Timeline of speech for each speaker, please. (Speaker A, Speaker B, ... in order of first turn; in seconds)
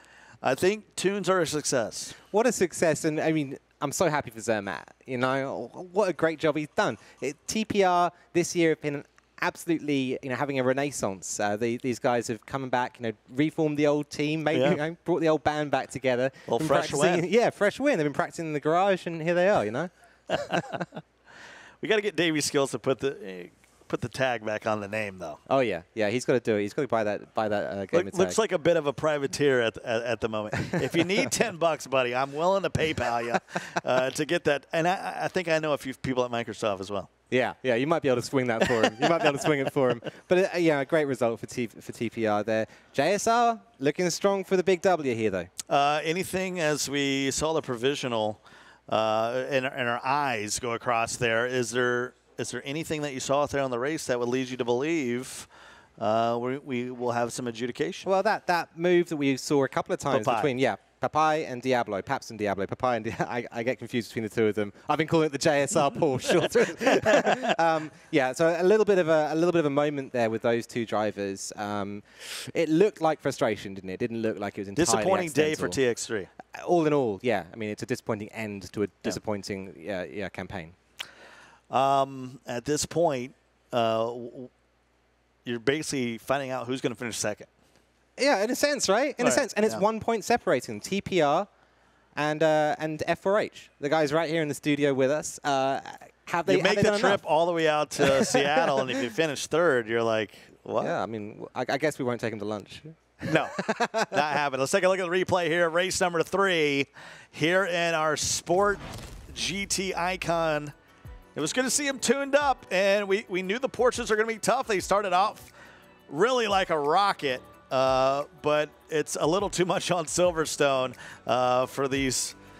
Speaker A: 0.4-2.1, 14.5-14.8, 16.5-17.2, 20.3-20.8, 21.8-25.4, 27.9-37.1, 38.8-39.2, 45.7-58.0, 60.1-60.5, 66.9-67.3, 74.8-76.3, 81.7-84.5, 85.4-87.5, 89.2-89.8, 96.4-100.9, 103.3-103.6, 104.1-110.7, 111.3-115.5, 116.1-122.3
Speaker B: 2.2-19.9, 20.5-20.8, 25.5-28.4, 30.7-31.2, 37.3-45.5, 58.0-75.8, 76.5-80.7, 88.2-91.5, 92.1-97.2, 98.0-99.0, 100.8-104.2